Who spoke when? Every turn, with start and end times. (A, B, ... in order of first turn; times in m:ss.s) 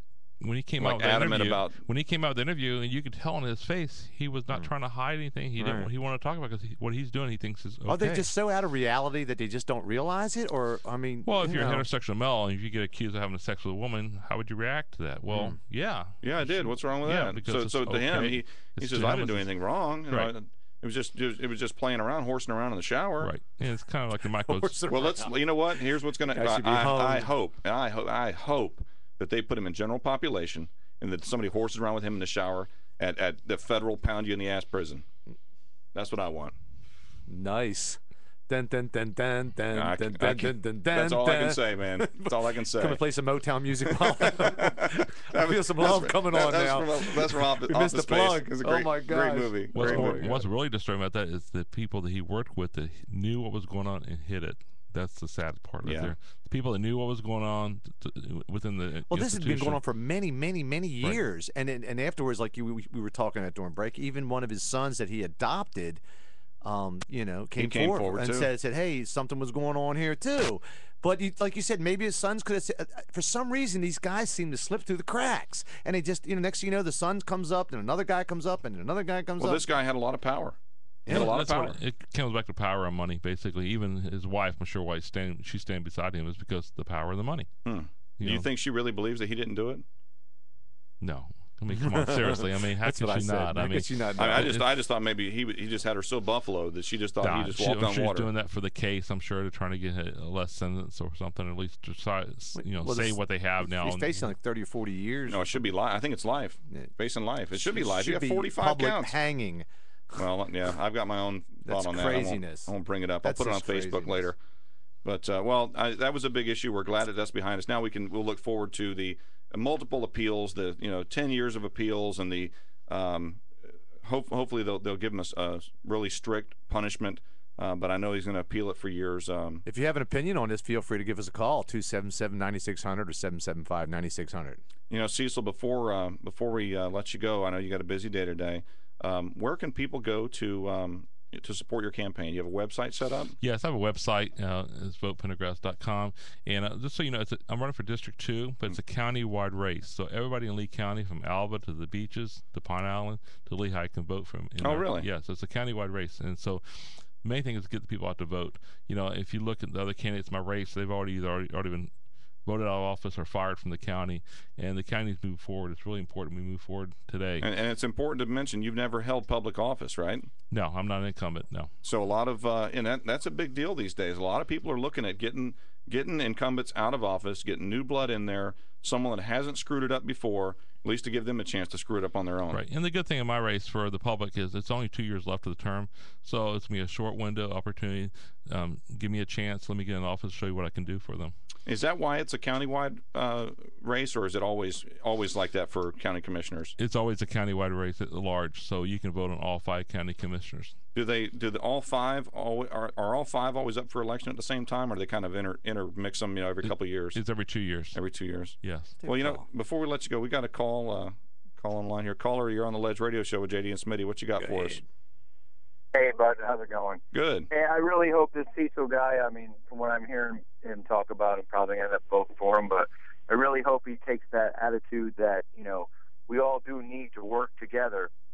0:00.4-0:08.3 A
0:00.8-0:01.8 B
0:05.6-0:05.9 C
0:07.9-0:11.9 C
0:11.2-0:19.5 A
0:15.3-0:15.6 C
0:16.2-0:23.3 B
0:20.1-0:20.3 A
0:23.2-0:24.8 A
0:24.3-0:25.7 C
0:24.9-0:35.0 B
0:26.3-0:27.3 C
0:35.9-0:36.5 B
0:37.3-0:50.4 C
0:39.7-0:43.0 B
0:44.2-0:50.4 B
0:49.7-0:59.8 A
0:55.8-0:56.1 B
0:59.1-1:06.0 C
1:06.6-1:19.6 C
1:07.6-1:08.5 B
1:19.4-1:21.8 B
1:21.0-1:21.4 C
1:21.1-1:27.5 A
1:27.6-1:29.8 B
1:28.2-1:28.5 A
1:31.0-1:34.7 A
1:31.7-1:34.5 C
1:34.2-1:38.3 B
1:37.2-1:44.3 A
1:42.6-1:45.6 C
1:45.3-1:49.2 B
1:47.6-1:50.2 C
1:50.2-1:54.4 B
1:51.7-1:54.3 C
1:55.0-2:03.4 B
2:04.0-2:09.6 B
2:09.6-2:14.6 C
2:14.9-2:23.4 B
2:23.4-2:41.9 A
2:34.6-2:35.1 B
2:42.4-2:47.4 A
2:47.4-2:50.3 B
2:50.5-2:51.7 A
2:51.8-3:02.6 B
3:02.5-3:11.3 A
3:11.7-3:16.7 B
3:16.8-3:20.7 A
3:20.9-3:27.2 B
3:26.6-3:28.0 A
3:27.9-3:34.8 B
3:28.6-3:29.0 A
3:29.0-3:29.4 C
3:34.4-3:34.8 C
3:35.9-3:48.1 D
3:37.1-3:37.5 B